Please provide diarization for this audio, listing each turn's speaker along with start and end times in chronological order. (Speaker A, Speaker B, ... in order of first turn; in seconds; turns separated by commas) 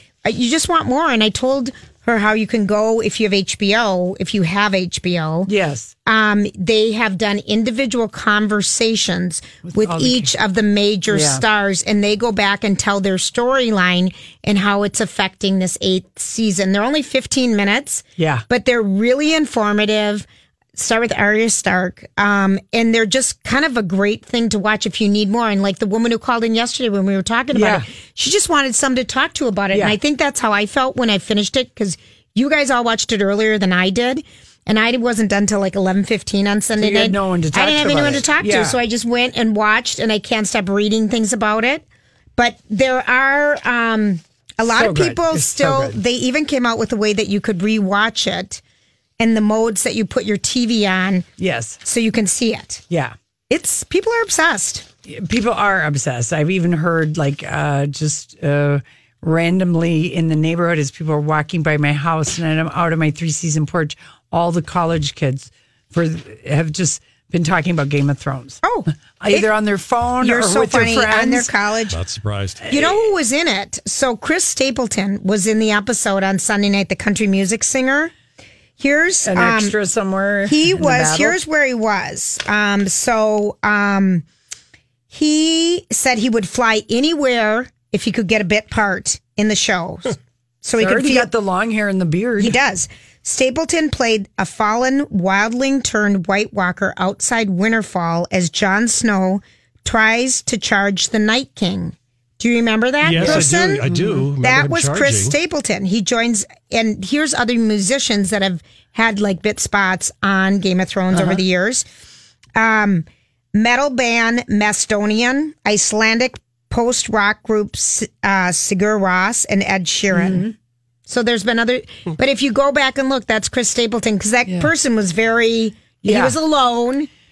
Speaker A: 0.2-5.5, Speaker B: 5.5-5.9, Speaker A: 6.1-41.8, Speaker B: 9.7-10.3, Speaker B: 11.1-11.4, Speaker B: 18.2-18.4, Speaker B: 27.5-27.9, Speaker B: 36.8-38.8, Speaker A: 42.4-48.6, Speaker B: 44.7-46.0, Speaker A: 49.2-51.3, Speaker B: 51.4-51.8, Speaker A: 51.8-52.8, Speaker B: 52.9-53.1, Speaker A: 53.5-54.9, Speaker B: 55.1-68.6, Speaker A: 68.6-69.5, Speaker B: 69.2-71.5, Speaker A: 70.2-72.0, Speaker C: 71.9-72.7, Speaker B: 72.7-72.9, Speaker A: 72.7-78.1, Speaker A: 78.8-79.8, Speaker B: 79.2-81.4, Speaker A: 80.5-84.2, Speaker A: 85.1-91.3, Speaker B: 90.8-92.6, Speaker A: 92.4-103.8, Speaker C: 103.0-105.3, Speaker B: 103.1-104.3, Speaker A: 104.4-111.8, Speaker B: 111.1-111.4, Speaker A: 112.6-120.5, Speaker B: 120.1-120.5, Speaker A: 121.1-127.1, Speaker B: 124.5-124.7, Speaker B: 126.0-126.3